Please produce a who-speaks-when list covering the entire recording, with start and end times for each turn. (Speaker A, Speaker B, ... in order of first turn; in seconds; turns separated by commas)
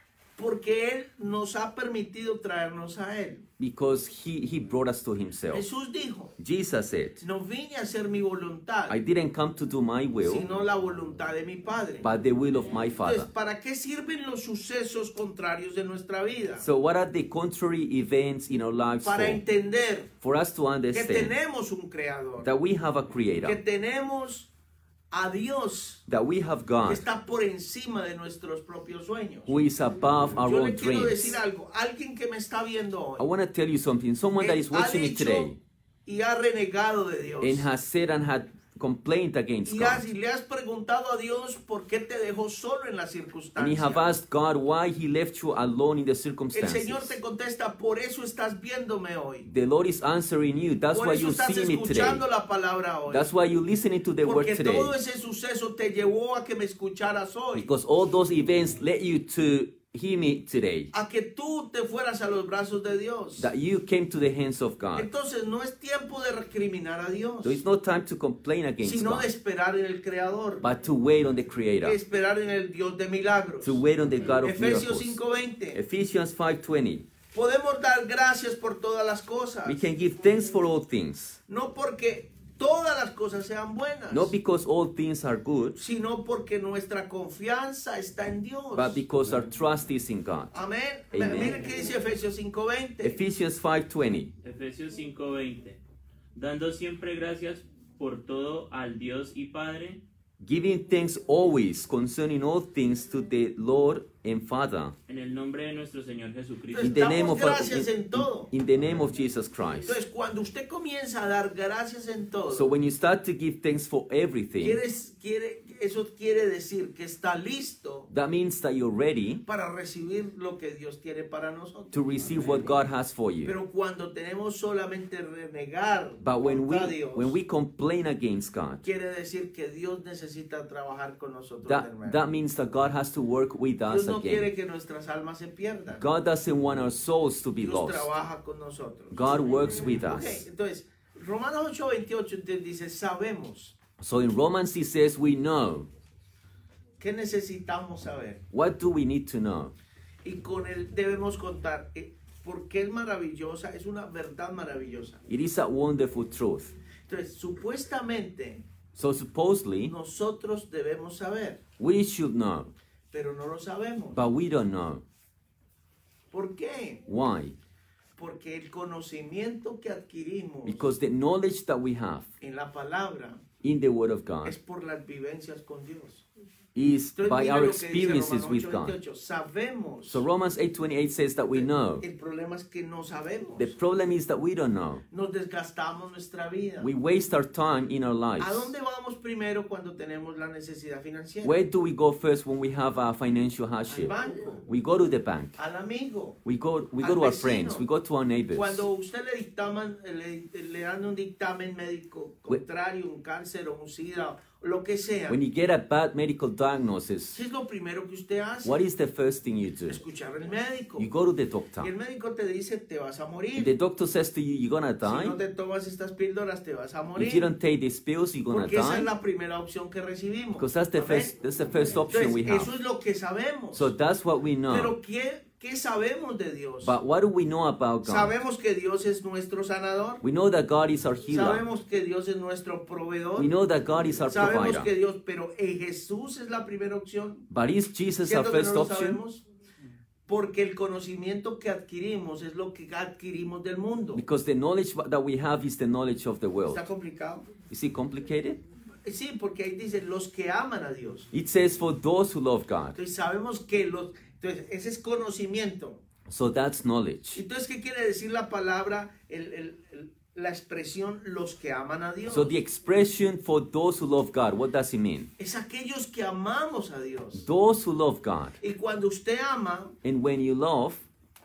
Speaker A: 0.4-3.4, Speaker B: 3.6-5.7, Speaker A: 5.5-6.4, Speaker B: 6.4-7.2, Speaker A: 7.2-9.0, Speaker B: 8.9-10.5, Speaker A: 10.2-12.1, Speaker B: 12.0-13.3, Speaker A: 13.0-16.7, Speaker B: 16.6-19.4, Speaker A: 19.0-20.1, Speaker B: 20.2-21.3, Speaker A: 20.9-22.5, Speaker B: 22.4-23.6, Speaker A: 23.4-24.5, Speaker A: 25.1-26.1, Speaker B: 26.1-27.1, Speaker A: 26.8-29.6, Speaker B: 29.5-31.4, Speaker A: 30.4-33.2, Speaker B: 33.2-35.6, Speaker A: 34.4-35.5, Speaker A: 36.1-37.7, Speaker B: 37.4-40.0, Speaker A: 39.6-44.1, Speaker B: 43.6-47.2, Speaker A: 46.5-49.5, Speaker B: 49.5-52.2, Speaker A: 50.9-53.3, Speaker B: 53.1-55.0, Speaker A: 54.2-57.7, Speaker B: 57.5-60.9, Speaker A: 60.9-63.5, Speaker B: 63.4-65.1, Speaker A: 64.9-67.6, Speaker B: 67.4-69.3, Speaker A: 68.8-70.7, Speaker B: 70.6-72.0, Speaker A: 71.8-75.8, Speaker B: 73.6-75.2, Speaker B: 75.7-77.1, Speaker A: 77.3-79.8, Speaker B: 79.7-81.4, Speaker A: 81.5-84.4, Speaker B: 84.1-85.8, Speaker A: 85.8-89.0, Speaker B: 88.7-90.5, Speaker A: 90.5-93.2, Speaker B: 91.1-91.6, Speaker B: 93.0-94.3, Speaker C: 94.4-95.8, Speaker C: 96.3-100.0, Speaker B: 100.4-105.0, Speaker C: 105.1-106.9, Speaker A: 106.7-108.5, Speaker B: 106.8-110.0, Speaker A: 109.8-112.7, Speaker B: 112.5-114.8, Speaker A: 114.6-118.1, Speaker B: 118.1-119.4, Speaker A: 119.5-122.7, Speaker B: 121.9-123.5, Speaker A: 123.4-127.4, Speaker B: 126.2-128.9, Speaker A: 128.8-132.2, Speaker B: 131.7-134.5, Speaker A: 133.9-136.1, Speaker B: 136.0-138.1, Speaker A: 137.6-143.8, Speaker B: 139.1-140.5, Speaker B: 144.0-145.9, Speaker A: 147.0-148.4, Speaker B: 148.5-149.8, Speaker A: 150.2-155.3, Speaker B: 155.3-156.7, Speaker A: 157.1-158.7, Speaker B: 158.9-159.9, Speaker A: 159.8-161.6, Speaker B: 161.8-162.7, Speaker A: 163.1-164.2, Speaker B: 164.1-165.0, Speaker A: 166.3-167.1, Speaker B: 167.1-167.6, Speaker A: 168.2-170.9, Speaker B: 170.7-172.3, Speaker A: 172.4-173.4, Speaker B: 173.6-174.6, Speaker A: 174.4-176.3, Speaker B: 176.8-179.0, Speaker A: 177.2-180.2, Speaker B: 180.1-182.1, Speaker A: 181.5-183.7, Speaker B: 183.6-185.0, Speaker A: 185.1-186.9, Speaker B: 186.8-188.7, Speaker A: 188.4-191.6, Speaker B: 191.4-195.6, Speaker A: 193.9-194.7, Speaker A: 195.6-196.4, Speaker B: 196.4-198.9, Speaker A: 197.0-197.9, Speaker A: 198.5-205.4, Speaker B: 205.3-207.4, Speaker A: 207.3-208.8, Speaker B: 208.6-210.0, Speaker A: 209.9-211.1, Speaker B: 211.0-211.9, Speaker A: 211.8-213.7, Speaker B: 213.6-215.4, Speaker A: 215.0-217.5, Speaker B: 217.2-219.1, Speaker A: 218.5-221.3, Speaker B: 220.6-222.8, Speaker A: 222.1-223.9, Speaker B: 223.7-224.9, Speaker A: 224.7-227.0, Speaker B: 226.8-228.3, Speaker A: 228.0-230.2, Speaker B: 230.2-231.6, Speaker A: 231.3-233.5, Speaker B: 233.4-234.9, Speaker A: 234.3-237.5, Speaker B: 237.5-239.2, Speaker A: 238.2-239.4, Speaker A: 240.3-244.2, Speaker B: 244.1-246.8, Speaker A: 246.7-247.5, Speaker B: 247.7-248.6, Speaker A: 249.0-251.3, Speaker B: 251.3-253.0, Speaker A: 252.9-256.0, Speaker B: 256.3-257.4, Speaker A: 257.3-262.5, Speaker B: 262.3-265.3, Speaker A: 265.4-267.5, Speaker B: 267.3-268.6, Speaker A: 268.6-270.0, Speaker B: 270.0-271.1